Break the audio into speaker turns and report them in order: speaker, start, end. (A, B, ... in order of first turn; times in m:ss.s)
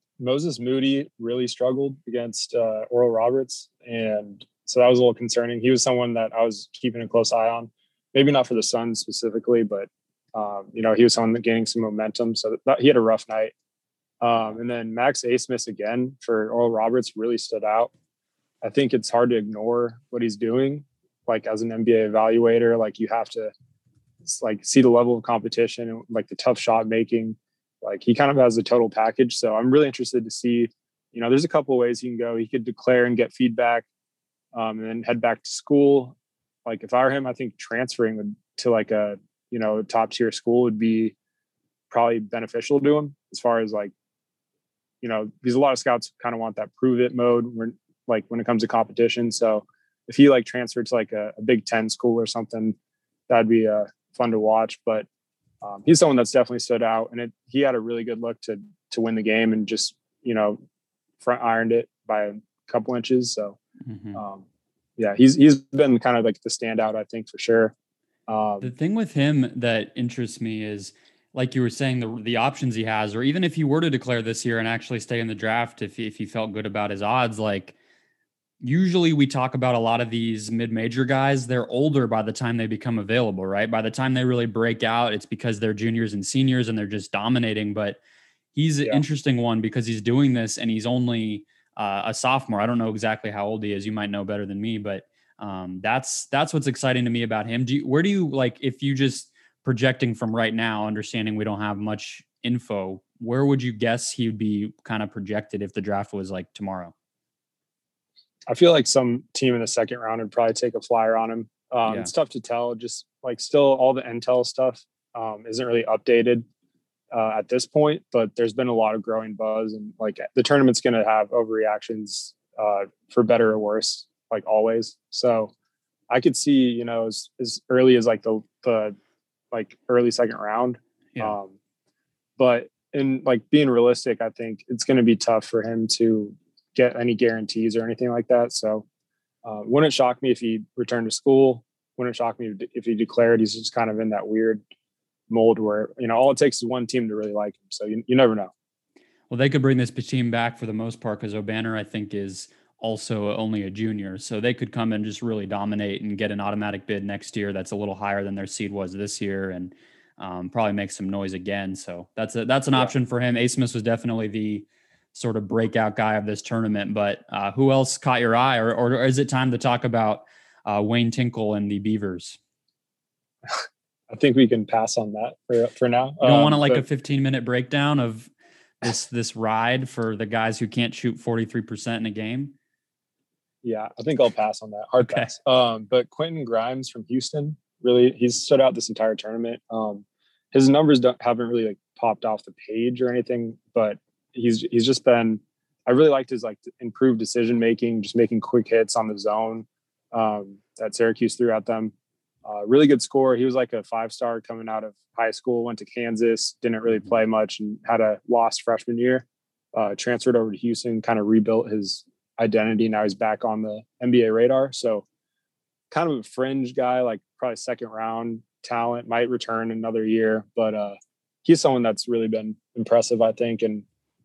0:00.2-0:13.5 A
0:14.2-0:17.9 A
0:18.6-0:23.5 A
0:24.2-0:33.8 A
0:34.5-0:41.1 A
0:41.9-0:43.9 A
0:45.0-0:52.8 A
0:53.3-0:55.0 A
0:55.6-1:00.6 A
1:01.2-1:03.6 A
1:03.8-1:04.2 B
1:04.1-1:04.4 A
1:05.0-1:07.7 A
1:08.3-1:08.7 A
1:08.6-1:17.7 B
1:18.6-1:28.0 B
1:28.5-1:46.9 B
1:48.5-1:56.4 A
1:51.8-1:52.1 B
1:57.1-2:05.5 A
2:06.1-2:09.0 A
2:09.5-2:11.6 A
2:12.4-2:18.8 A
2:19.4-2:24.6 A
2:25.3-2:28.5 A
2:29.3-2:52.4 B
2:54.1-2:56.8 A
2:56.2-2:58.3 B
2:58.8-3:02.5 B
3:03.6-3:21.9 A
3:05.0-3:05.3 B
3:22.4-3:35.0 A
3:35.9-3:43.8 A